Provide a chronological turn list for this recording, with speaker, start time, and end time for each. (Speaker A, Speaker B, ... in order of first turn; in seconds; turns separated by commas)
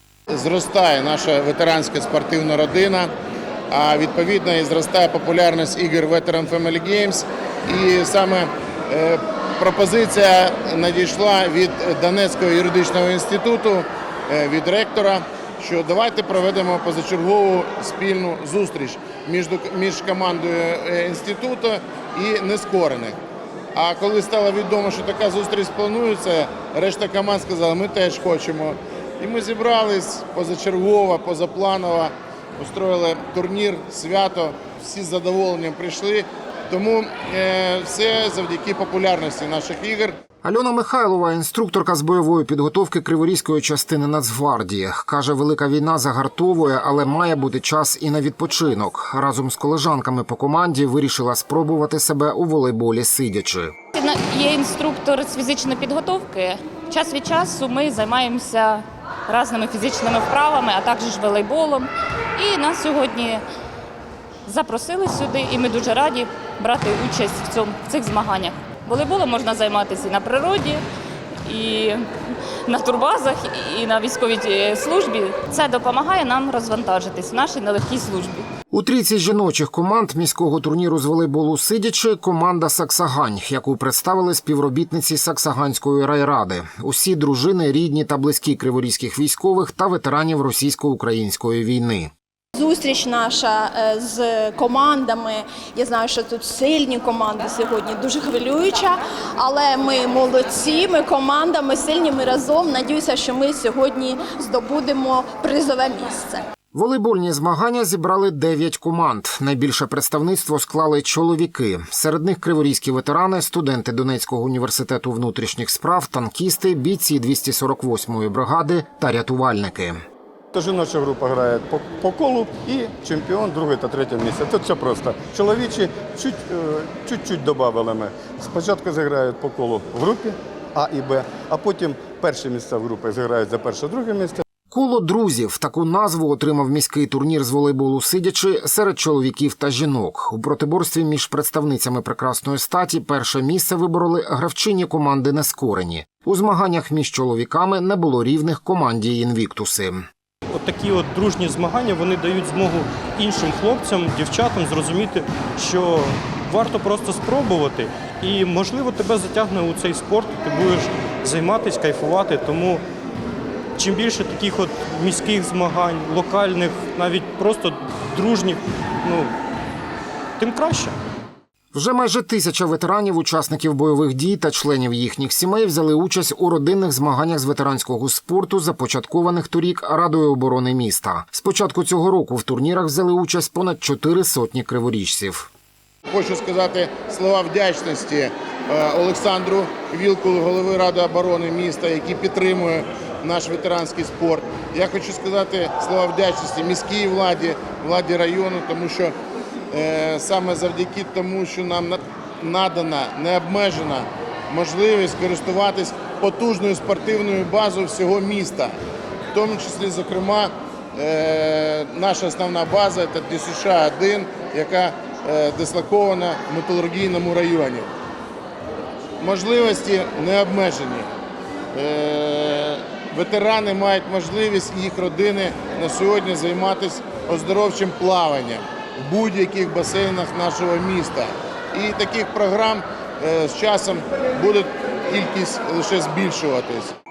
Speaker A: 0.3-3.1, Speaker A: 3.7-23.1, Speaker A: 23.8-40.1, Speaker B: 40.5-53.7, Speaker C: 54.0-63.4, Speaker C: 64.5-70.8, Speaker C: 71.5-72.0, Speaker C: 72.7-78.5, Speaker B: 78.7-92.1, Speaker D: 92.5-106.5, Speaker B: 106.7-120.0, Speaker E: 120.5-134.4, Speaker B: 134.7-150.0, Speaker F: 150.5-162.8, Speaker F: 163.8-169.3, Speaker F: 170.4-171.0, Speaker B: 171.8-185.5, Speaker A: 186.1-199.1, Speaker A: 199.7-208.7, Speaker A: 209.3-217.9, Speaker A: 219.2-221.1, Speaker A: 221.7-236.9